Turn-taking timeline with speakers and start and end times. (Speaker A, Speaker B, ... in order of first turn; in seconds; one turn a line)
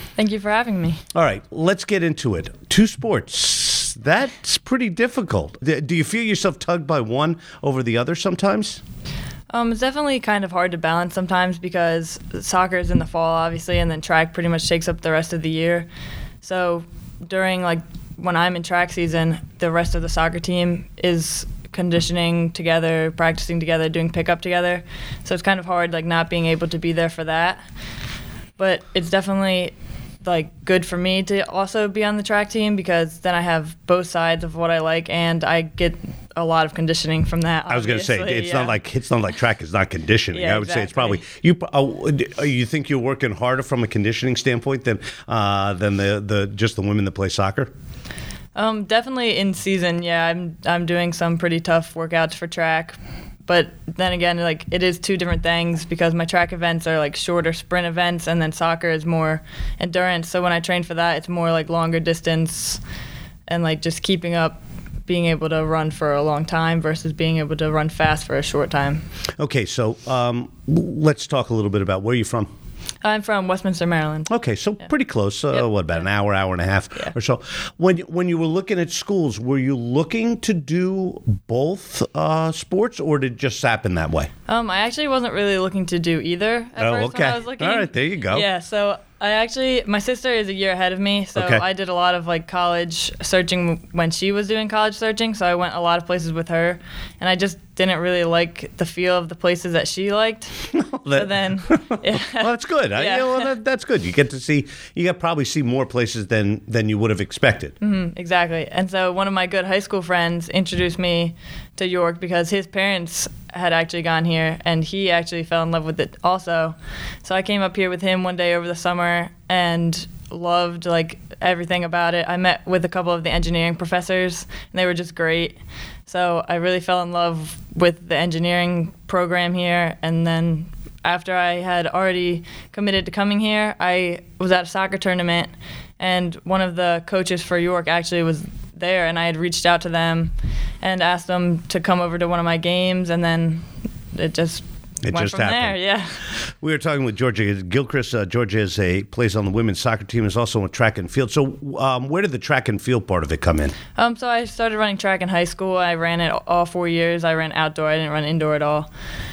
Speaker A: 0.2-1.0
Speaker B: 1.1-8.8
Speaker A: 9.5-15.9
Speaker A: 16.4-27.6
Speaker A: 28.6-38.8
Speaker B: 37.7-47.7
Speaker A: 40.3-41.2
Speaker A: 48.5-62.8
Speaker A: 63.5-69.0
Speaker B: 69.4-72.5
Speaker A: 73.0-74.3
Speaker B: 74.3-84.3
Speaker A: 75.5-76.0
Speaker A: 84.5-103.5
Speaker B: 86.8-88.5
Speaker B: 91.3-91.6
Speaker B: 100.7-107.7
Speaker A: 107.8-146.3
Speaker B: 145.0-145.8
Speaker B: 146.3-153.7
Speaker A: 153.9-158.9